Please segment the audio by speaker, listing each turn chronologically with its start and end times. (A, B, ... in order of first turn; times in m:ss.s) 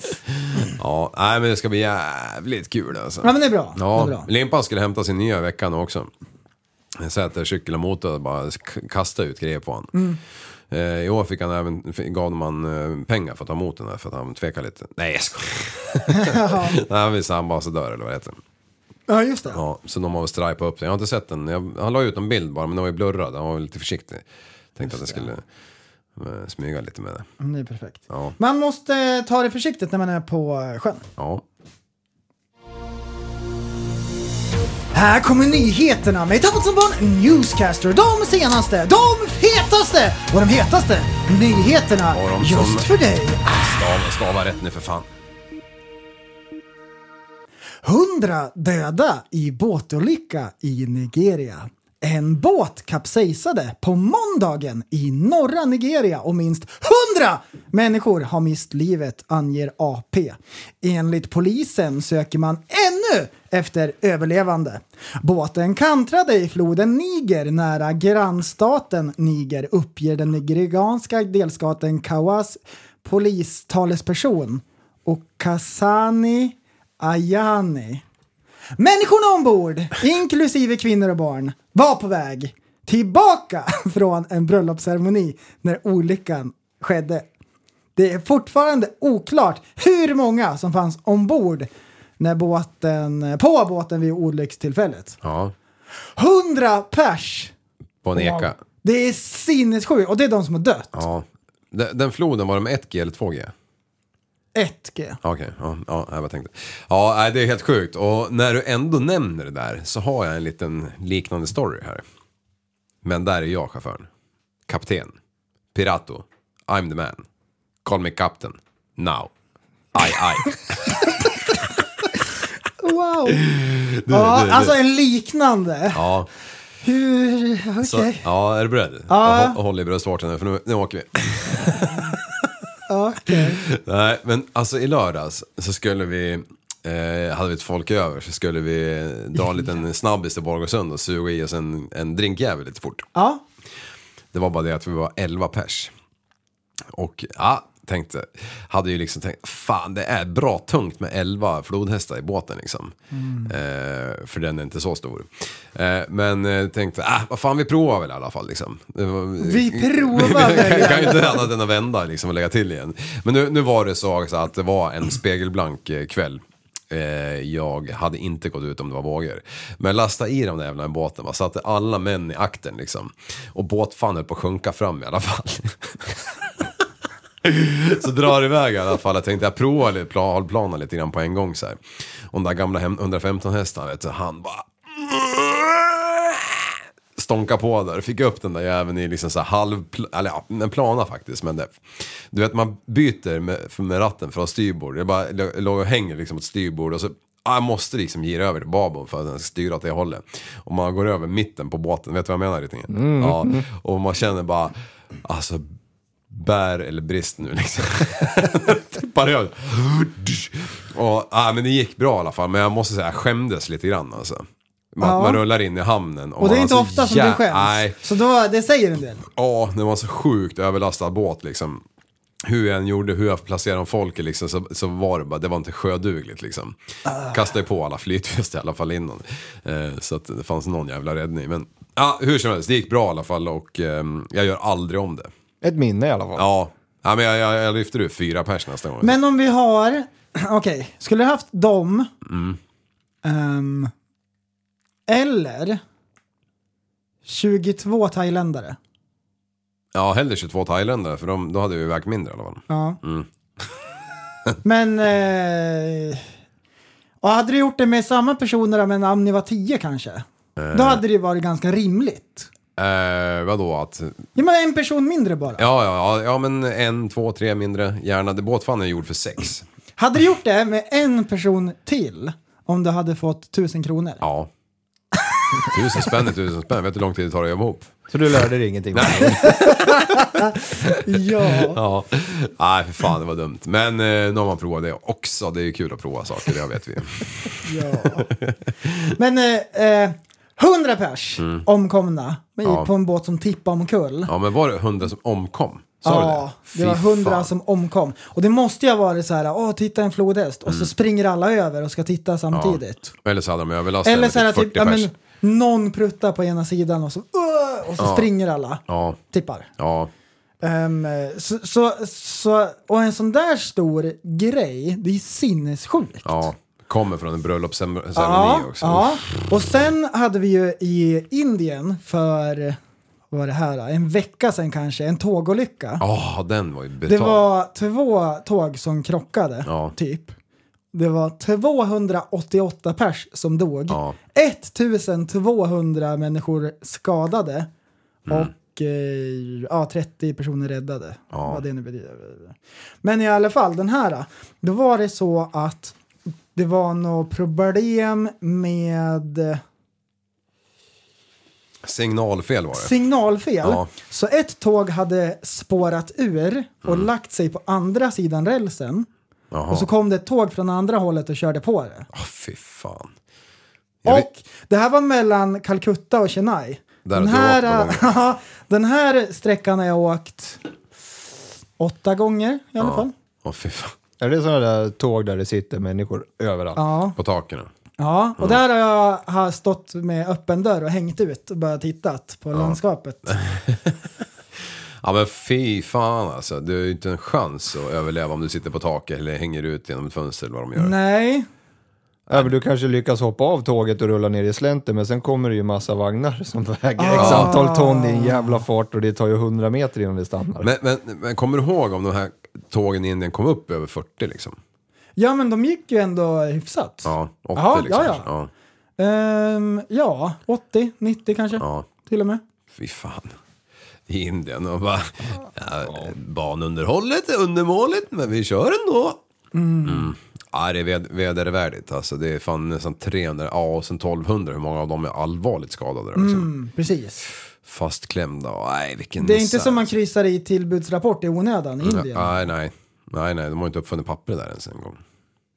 0:00.5-0:06.1 A
0:03.2-0:04.3 B
0:07.0-0:09.9 A
0:10.7-0:18.4 A
0:16.1-0:16.8 B
0:19.1-0:19.6 B
0:19.5-0:24.2 A
0:24.8-0:25.4 A
0:24.8-0:25.3 B
0:26.2-0:27.3 A
0:27.4-0:31.0 B
0:28.1-0:28.4 A
0:31.2-0:31.4 A
0:34.9-0:43.4 B
0:42.1-0:42.9 A
0:43.4-0:45.1 A
0:47.8-1:18.0 B
1:18.8-1:27.3 B
1:28.0-1:35.2 B
1:35.2-1:35.5 A
1:36.2-1:37.5 B
1:38.0-1:38.6 A
1:38.2-1:41.0 B
1:40.9-1:43.5 A
1:44.6-1:45.2 B
1:45.2-1:52.0 A
1:53.0-1:54.1 A
1:54.7-1:55.1 A
1:55.7-1:57.2 A
1:57.8-1:59.3 A
1:59.9-2:01.2 A
2:02.8-2:03.4 B
2:03.3-2:04.8 A
2:04.1-2:06.0 B
2:05.9-2:06.3 A
2:06.8-2:08.2 B
2:07.8-2:12.3 A
2:09.1-2:09.6 B
2:12.9-2:13.6 B
2:13.4-2:23.1 A
2:23.2-2:23.4 B
2:24.3-2:25.9 A
2:26.9-2:32.9 A
2:33.1-2:33.5 B
2:33.5-2:56.2 A
2:39.4-2:41.5 B
2:57.4-3:01.8 A
3:02.3-3:24.7 A
3:22.9-3:23.6 C
3:25.2-3:25.6 A
3:26.3-3:38.0 A
3:35.0-3:35.4 B
3:36.4-3:39.2 B
3:39.4-3:41.8 A
3:42.4-3:55.3 A
3:55.6-3:56.4 C
3:56.4-3:59.2 A
3:59.0-4:02.1 B
4:02.3-4:02.6 A
4:03.2-4:03.9 B
4:05.1-4:05.8 B
4:07.3-4:08.8 B
4:10.0-4:13.3 A
4:12.7-4:13.0 B
4:14.6-4:16.3 B
4:17.2-4:22.5 B
4:20.6-4:21.0 A
4:22.8-4:24.3 A
4:24.4-4:25.6 B
4:25.6-4:29.6 A
4:30.0-4:34.2 B
4:34.2-4:34.5 A
4:35.7-4:37.9 A
4:38.1-4:39.6 C
4:38.9-4:40.1 A
4:39.4-4:41.8 B
4:41.6-4:47.6 A
4:47.6-4:48.3 B
4:48.3-4:49.1 A
4:49.1-4:54.3 B
4:51.4-4:51.7 A
4:54.3-4:57.5 A
4:56.0-5:03.1 B
5:02.5-5:05.1 A
5:04.0-5:08.8 B
5:08.0-5:08.3 A
5:08.9-5:09.2 A
5:09.3-5:09.7 B
5:09.8-5:10.1 A
5:10.6-5:16.5 B
5:16.2-5:19.3 A
5:18.2-5:22.8 B
5:23.3-5:26.0 B
5:26.0-5:27.4 A
5:27.1-5:30.4 B
5:29.7-5:29.9 A
5:30.9-5:37.7 B
5:33.9-5:34.2 A
5:38.3-5:46.0 B
5:41.3-5:41.6 A
5:46.5-5:49.6 B
5:51.8-5:53.0 A
5:52.7-5:59.1 B
5:53.6-5:53.9 A
5:59.5-5:59.9 A
5:59.7-6:02.1 B
6:02.1-6:03.1 A
6:04.1-6:10.6 B
6:07.0-6:08.1 A
6:11.8-6:13.1 B
6:12.8-6:13.9 A
6:14.2-6:16.8 C
6:16.8-6:17.2 B
6:17.2-6:17.7 A
6:18.0-6:23.4 B
6:22.5-6:24.0 A
6:25.0-6:31.0 A
6:30.8-6:31.5 B
6:32.3-6:40.7 C
6:37.0-6:38.6 B
6:37.2-6:37.6 A
6:40.6-6:44.6 A
6:45.2-6:48.3 B
6:47.0-6:48.5 A
6:49.0-6:52.4 B
6:51.6-6:51.9 A
6:52.8-6:53.3 A
6:54.1-6:59.2 A
6:59.5-7:00.2 B
6:59.9-7:06.5 A
7:06.2-7:07.2 B
7:07.6-7:09.9 A
7:09.2-7:12.4 B
7:11.8-7:15.0 A